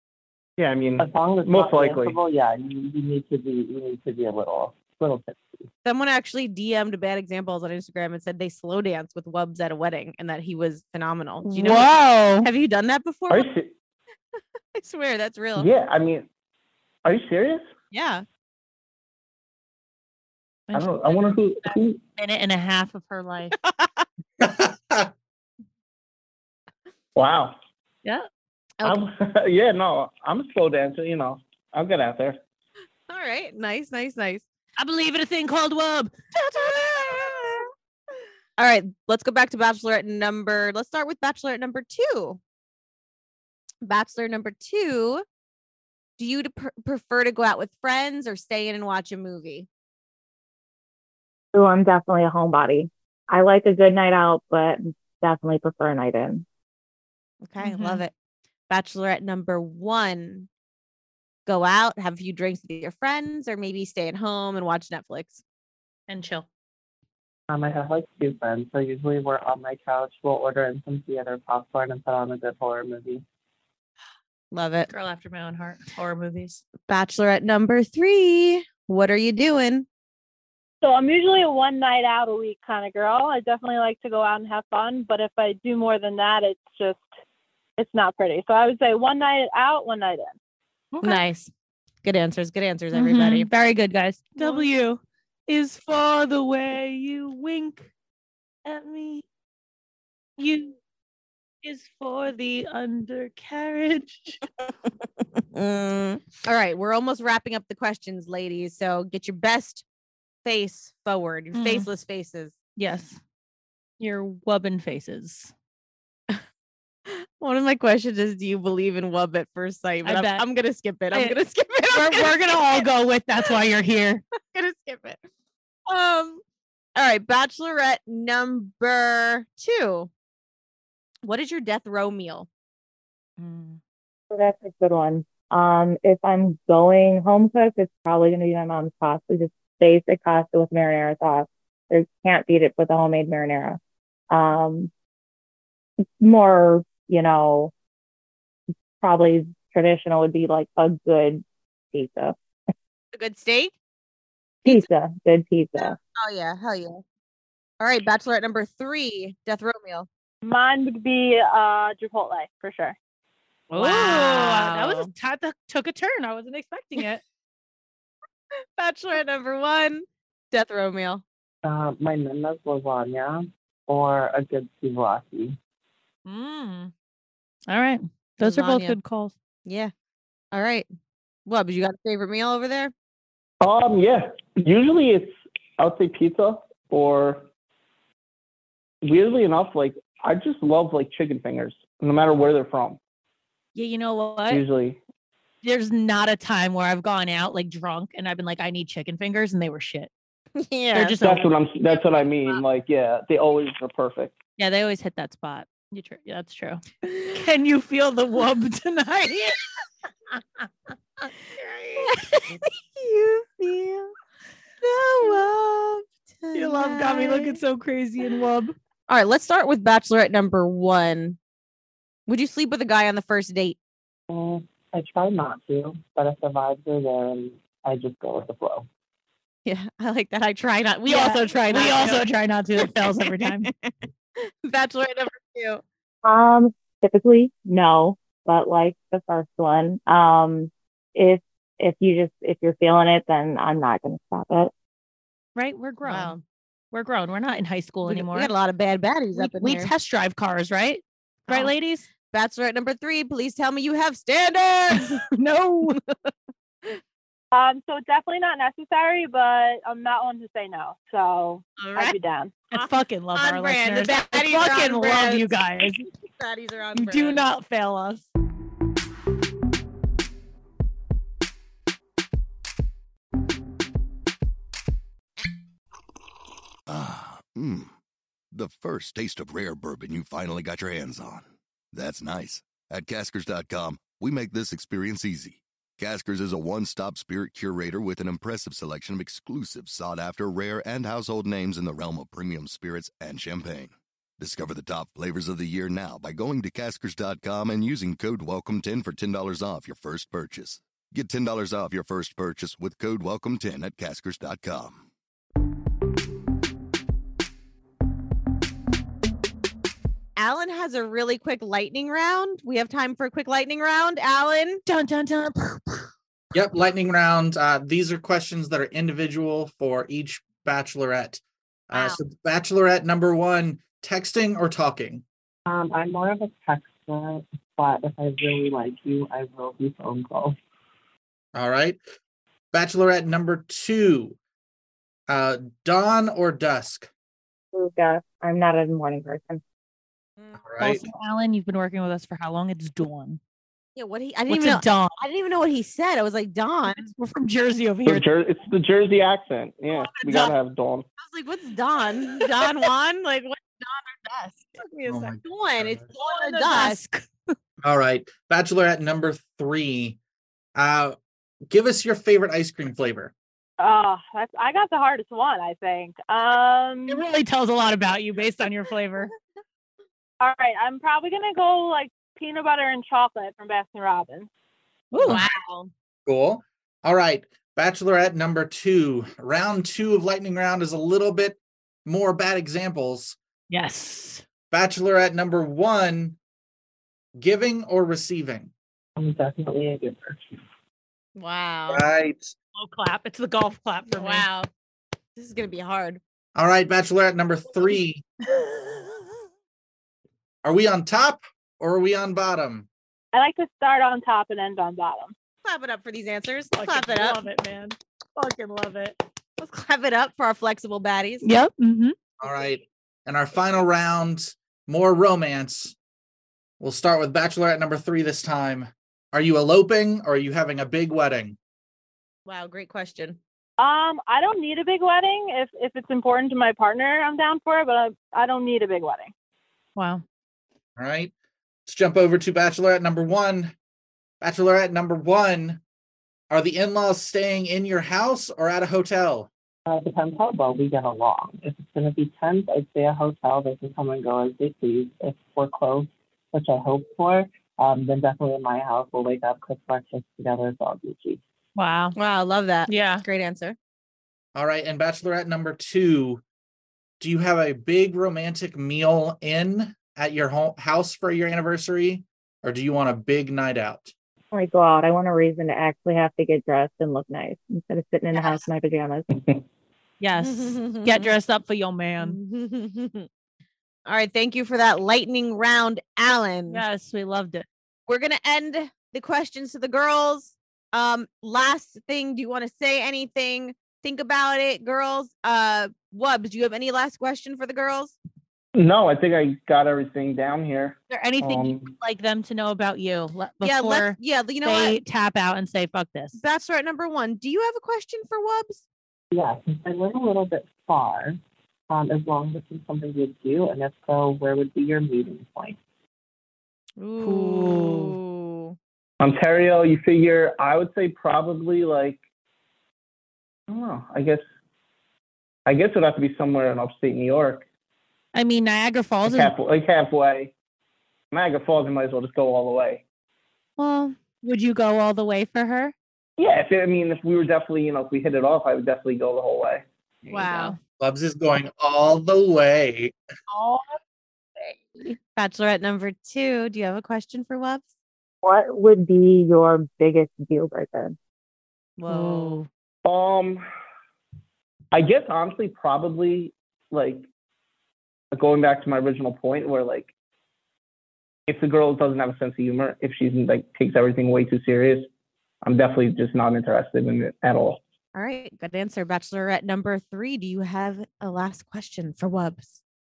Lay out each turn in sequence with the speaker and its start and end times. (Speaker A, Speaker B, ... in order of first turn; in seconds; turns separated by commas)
Speaker A: 0.6-2.2, Speaker B: 1.0-5.7, Speaker C: 5.8-13.5, Speaker D: 11.4-12.5, Speaker A: 13.3-13.7, Speaker C: 14.7-15.7, Speaker A: 15.6-16.3, Speaker A: 17.0-17.7, Speaker C: 17.9-18.2, Speaker D: 20.7-23.5, Speaker A: 20.7-22.0, Speaker C: 23.5-24.0, Speaker E: 24.4-25.1, Speaker A: 27.1-27.6, Speaker A: 28.8-32.4, Speaker C: 33.1-34.4, Speaker D: 34.8-37.6, Speaker C: 36.3-37.7, Speaker C: 38.6-42.4, Speaker C: 43.8-45.2, Speaker C: 46.2-49.7, Speaker F: 51.5-56.4, Speaker C: 57.4-58.1, Speaker D: 57.6-58.0, Speaker C: 58.7-60.5, Speaker C: 61.5-65.4, Speaker D: 66.1-66.5, Speaker B: 67.5-73.2, Speaker C: 74.5-74.9, Speaker D: 74.9-76.6, Speaker C: 76.9-79.8, Speaker G: 80.8-87.0, Speaker G: 87.8-90.3, Speaker D: 90.9-91.2, Speaker C: 91.0-91.5, Speaker C: 92.0-93.5, Speaker D: 92.9-97.9, Speaker G: 94.4-94.7, Speaker D: 98.6-99.2, Speaker D: 100.4-100.8, Speaker D: 101.6-104.4, Speaker C: 105.4-109.8, Speaker C: 110.4-112.5, Speaker D: 111.5-111.9, Speaker D: 112.8-113.2, Speaker D: 114.0-115.5, Speaker C: 117.0-122.8, Speaker D: 120.0-120.4, Speaker D: 121.1-121.4, Speaker D: 121.9-124.2, Speaker C: 124.5-125.2, Speaker C: 125.9-126.4, Speaker C: 127.0-130.1, Speaker C: 131.2-132.5, Speaker D: 133.4-133.8, Speaker F: 134.3-143.8, Speaker F: 144.3-144.9, Speaker F: 146.2-147.7, Speaker F: 149.0-152.3, Speaker C: 153.1-153.7, Speaker F: 154.6-156.0, Speaker C: 155.8-157.0, Speaker C: 157.8-160.1, Speaker G: 160.4-162.9, Speaker C: 163.7-165.1, Speaker D: 163.7-167.2, Speaker C: 168.8-171.2, Speaker B: 171.6-175.6, Speaker D: 176.2-176.9, Speaker D: 177.7-179.3, Speaker C: 178.4-179.0, Speaker C: 179.7-179.9, Speaker C: 180.5-180.8, Speaker C: 181.4-182.9, Speaker A: 183.6-187.4, Speaker A: 189.0-193.0, Speaker D: 193.7-194.6, Speaker A: 194.5-195.0, Speaker D: 195.6-200.1, Speaker C: 200.6-201.2, Speaker D: 200.9-201.5, Speaker A: 201.2-204.4, Speaker D: 204.6-209.6, Speaker C: 207.0-207.3, Speaker D: 210.3-210.7, Speaker D: 211.2-212.1, Speaker C: 212.0-214.1, Speaker C: 214.8-217.6, Speaker D: 216.5-218.7, Speaker C: 219.1-221.4, Speaker C: 222.3-223.8, Speaker B: 224.3-228.9, Speaker C: 229.7-232.2, Speaker D: 231.1-233.7, Speaker C: 232.8-235.8, Speaker F: 236.2-244.7, Speaker D: 245.5-246.3, Speaker C: 246.0-246.4, Speaker D: 246.9-248.5, Speaker C: 248.1-249.9, Speaker D: 249.3-252.1, Speaker C: 251.4-251.7, Speaker C: 252.2-255.2, Speaker D: 254.9-256.0, Speaker C: 256.0-256.3, Speaker G: 257.5-262.5, Speaker C: 261.8-262.1, Speaker D: 262.7-266.1, Speaker C: 262.7-265.6, Speaker C: 266.1-267.4, Speaker D: 266.9-268.3, Speaker H: 276.9-277.9, Speaker H: 278.5-305.0, Speaker C: 310.4-314.8, Speaker D: 314.9-316.1, Speaker E: 316.5-325.2, Speaker C: 321.9-322.2, Speaker B: 325.7-330.6, Speaker E: 331.5-332.0, Speaker E: 332.7-334.4, Speaker E: 335.3-337.1, Speaker F: 337.7-339.6, Speaker E: 340.6-341.0, Speaker D: 340.8-343.4, Speaker C: 343.9-347.1, Speaker D: 344.5-345.2, Speaker D: 346.9-348.3, Speaker A: 348.1-351.0, Speaker D: 349.9-350.5, Speaker C: 351.2-354.8, Speaker D: 352.4-352.7, Speaker D: 354.8-355.3, Speaker E: 355.1-356.0, Speaker C: 355.4-357.0, Speaker D: 356.1-357.5, Speaker E: 357.8-360.2, Speaker E: 360.8-361.1, Speaker E: 361.7-363.3, Speaker G: 363.8-367.2, Speaker D: 367.1-369.3, Speaker G: 370.4-374.5, Speaker D: 375.1-375.4, Speaker C: 375.2-375.9, Speaker E: 376.2-383.4, Speaker D: 383.7-384.4, Speaker E: 384.7-386.4, Speaker E: 387.4-388.7, Speaker B: 389.1-390.4, Speaker C: 391.4-392.1, Speaker E: 391.9-392.5, Speaker D: 392.8-394.4, Speaker C: 394.1-394.7, Speaker C: 395.4-396.2, Speaker E: 396.6-398.2, Speaker E: 400.6-402.9, Speaker G: 403.3-405.3, Speaker C: 405.6-407.4, Speaker D: 406.7-409.2, Speaker C: 409.6-411.4, Speaker D: 411.4-412.1, Speaker E: 412.4-415.9, Speaker E: 416.8-421.6, Speaker C: 422.4-423.4, Speaker G: 423.8-429.3, Speaker D: 429.9-430.2, Speaker E: 431.0-431.3, Speaker E: 431.9-433.7, Speaker E: 434.4-435.8, Speaker E: 436.5-439.5, Speaker B: 439.9-451.4, Speaker D: 451.8-452.1, Speaker C: 452.1-453.8, Speaker D: 452.9-453.2, Speaker E: 454.5-456.4, Speaker E: 457.2-464.1, Speaker F: 464.5-469.3, Speaker D: 470.2-472.4, Speaker C: 470.4-471.3, Speaker C: 472.2-473.3, Speaker C: 474.1-476.8, Speaker D: 476.7-477.6, Speaker C: 478.1-488.2, Speaker A: 488.7-491.9, Speaker D: 491.1-496.4, Speaker C: 493.6-495.0, Speaker C: 496.3-498.8, Speaker B: 499.3-501.4, Speaker B: 501.9-505.8, Speaker C: 507.0-508.8, Speaker D: 507.2-508.2, Speaker A: 509.2-512.2, Speaker A: 513.7-514.4, Speaker A: 515.6-517.6, Speaker D: 518.3-519.5, Speaker A: 519.2-520.5, Speaker A: 521.3-523.0, Speaker D: 523.8-525.9, Speaker A: 526.4-529.8, Speaker D: 530.3-530.8, Speaker C: 530.3-530.8, Speaker E: 531.0-533.1, Speaker C: 533.5-534.0, Speaker C: 534.6-537.9, Speaker F: 538.4-541.1, Speaker C: 542.0-542.6, Speaker D: 542.1-542.7, Speaker A: 543.0-543.6, Speaker A: 544.9-547.3, Speaker A: 548.3-550.1, Speaker A: 551.5-555.1, Speaker A: 555.6-557.8, Speaker C: 558.1-562.8